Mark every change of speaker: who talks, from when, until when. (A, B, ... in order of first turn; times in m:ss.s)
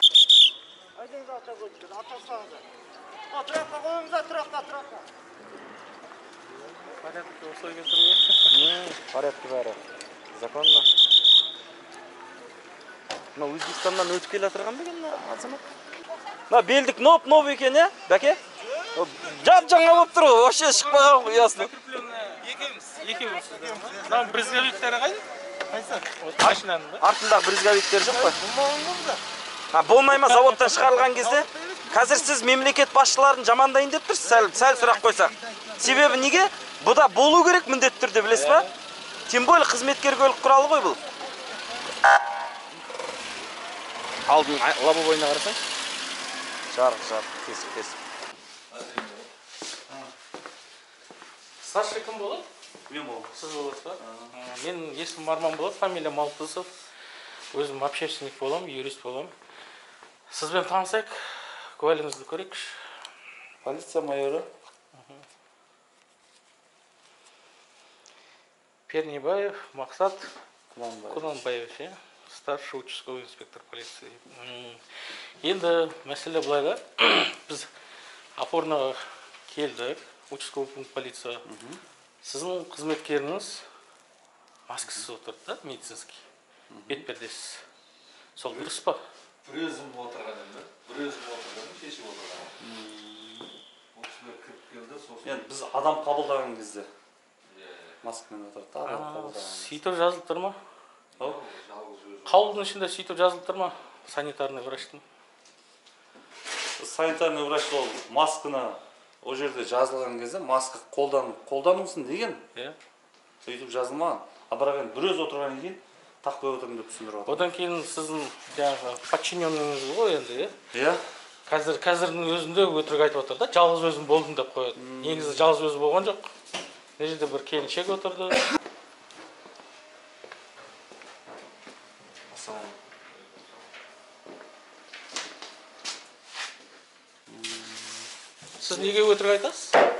0:00.9-0:02.6 A
0:03.3-0:05.0 A
0:07.0-0:08.6 B
0:08.5-0:09.8 C
0:10.3-0:10.9 C
0:13.3-0:15.6 C
0:16.5-0:18.4 C
0:18.9-0:21.7 C
0:21.3-0:25.2 B
0:22.4-0:24.8 A
0:25.7-0:26.1 A
0:26.2-0:27.0 B
0:26.4-0:28.4 C
0:28.0-0:29.2 A
0:29.7-0:38.7 C
0:30.1-0:31.1 B
0:31.2-0:32.3 A
0:34.2-0:36.5 A
0:38.3-0:38.7 B
0:39.3-0:41.0 C
0:44.3-0:45.6 C
0:46.7-0:48.0 C
0:48.7-0:49.3 D
0:51.6-0:52.5 B
0:52.9-0:53.3 E
0:53.3-0:56.7 B
0:54.0-0:54.3 E
0:57.5-0:59.3 B
1:00.3-1:02.8 B
1:03.6-1:04.5 E
1:04.9-1:05.2 B
1:08.9-1:10.3 B
1:10.7-1:11.4 E
1:11.1-1:17.7 B
1:18.4-1:21.4 B
1:21.5-1:21.8 E
1:22.2-1:23.6 B
1:24.7-1:26.2 B
1:24.8-1:25.1 E
1:26.7-1:27.0 E
1:26.9-1:27.6 B
1:28.4-1:29.0 B
1:29.4-1:32.6 D
1:32.6-1:33.5 E
1:33.9-1:35.4 D
1:35.2-1:36.9 E
1:37.5-1:38.0 D
1:38.0-1:39.7 E
1:38.8-1:40.6 B
1:41.2-1:42.8 D
1:42.2-1:45.0 B
1:46.8-1:52.4 E
1:53.4-1:57.5 E
1:57.2-2:00.5 B
2:00.7-2:01.0 E
2:01.5-2:06.3 B
2:04.8-2:05.5 E
2:07.0-2:08.5 B
2:12.3-2:12.7 C
2:13.1-2:13.6 D
2:17.3-2:18.0 E
2:18.6-2:19.8 B